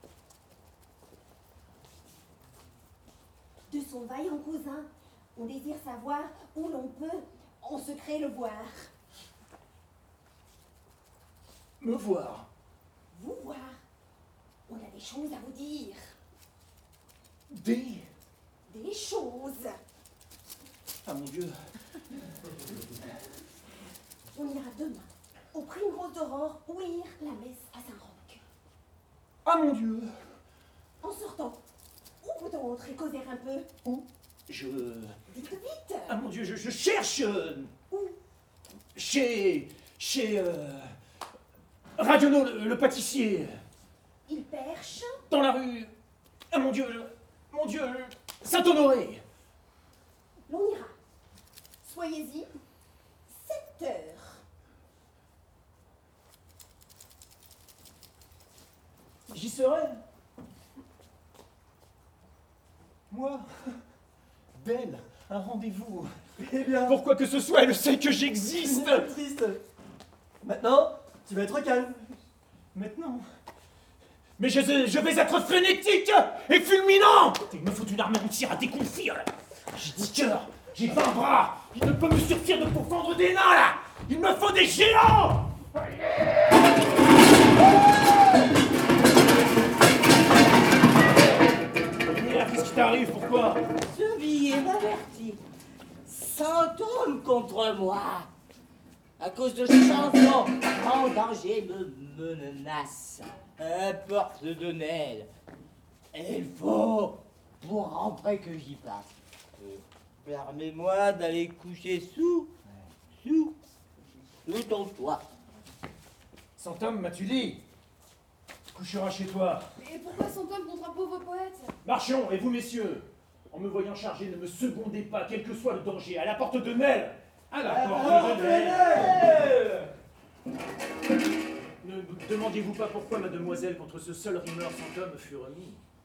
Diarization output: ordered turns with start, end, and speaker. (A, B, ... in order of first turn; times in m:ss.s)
0:03.7-0:08.9 A
0:11.8-0:12.5 B
0:13.1-0:13.8 A
0:14.7-0:16.1 A
0:17.5-0:18.1 B
0:18.7-0:19.8 A
0:21.0-0:21.6 B
0:24.3-0:28.4 A
0:29.4-0:30.1 B
0:31.0-0:31.6 A
0:32.2-0:33.7 A
0:33.8-0:35.2 B
0:35.3-0:36.2 A
0:36.1-0:37.7 B
0:37.9-0:38.2 A
0:39.0-0:40.9 B
0:42.0-0:43.6 B
0:44.3-0:45.2 A
0:45.3-0:45.9 B
0:46.5-0:49.2 B
0:50.5-0:51.0 A
0:51.8-0:52.5 A
0:53.3-0:54.4 A
0:59.3-1:00.0 B
1:03.1-1:03.7 B
1:04.6-1:06.1 B
1:06.4-1:07.0 C
1:06.8-1:09.2 B
1:08.6-1:09.6 C
1:10.4-1:12.1 C
1:12.7-1:13.2 B
1:14.4-1:25.8 B
1:32.0-1:33.6 B
1:33.8-1:35.4 D
1:36.0-1:38.3 D
1:39.2-1:45.3 D
1:46.1-1:49.1 D
1:49.6-1:52.5 D
1:53.1-1:53.6 D
1:54.4-1:55.2 D
1:56.6-1:57.6 B
1:58.7-1:59.6 B
1:59.8-2:01.7 E
2:01.8-2:09.2 B
2:07.7-2:09.9 D
2:07.8-2:09.2 C
2:11.8-2:15.8 B